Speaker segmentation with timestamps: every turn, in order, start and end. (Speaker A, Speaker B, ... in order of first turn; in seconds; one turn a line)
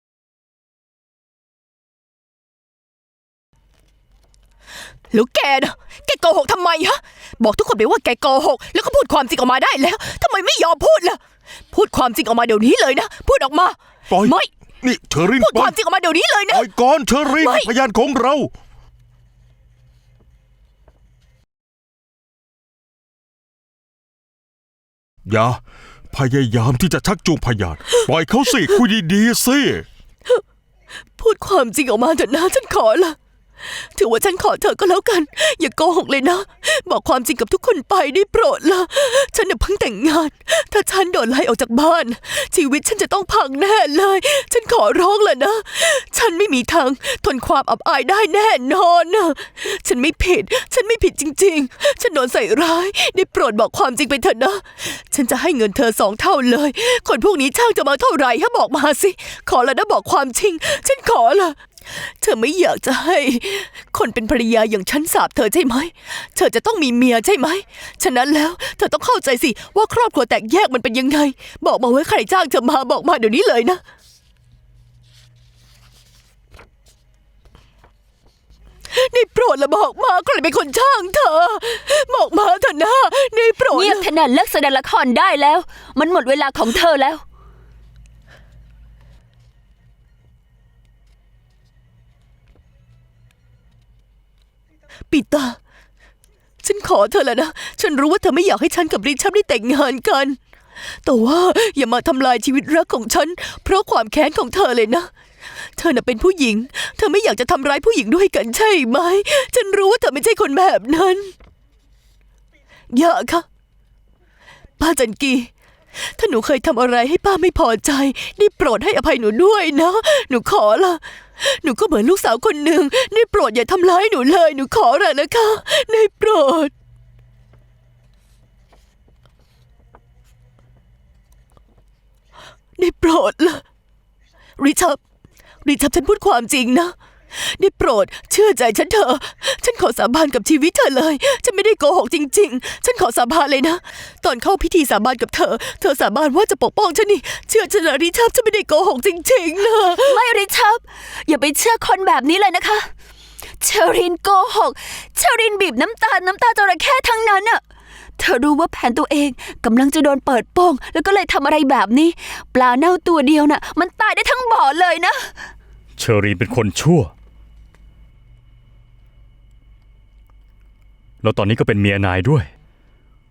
Speaker A: 5.1-11.2
Speaker A: 11.7-14.5
Speaker B: 14.1-15.8
Speaker A: 15.3-16.7
Speaker B: 16.5-18.5
Speaker A: 17.4-17.7
Speaker B: 25.3-25.6
Speaker B: 26.1-29.9
Speaker A: 31.2-33.2
Speaker A: 34.0-73.8
Speaker A: 78.9-84.1
Speaker C: 83.7-87.2
Speaker A: 95.1-95.6
Speaker A: 96.6-100.4
Speaker A: 101.0-105.1
Speaker A: 105.8-111.3
Speaker A: 112.9-113.5
Speaker A: 114.8-126.7
Speaker A: 132.8-133.6
Speaker A: 134.6-135.0
Speaker A: 135.6-150.2
Speaker C: 150.0-152.9
Speaker C: 153.6-157.6
Speaker C: 158.2-165.4
Speaker D: 166.0-167.1
Speaker D: 171.2-172.5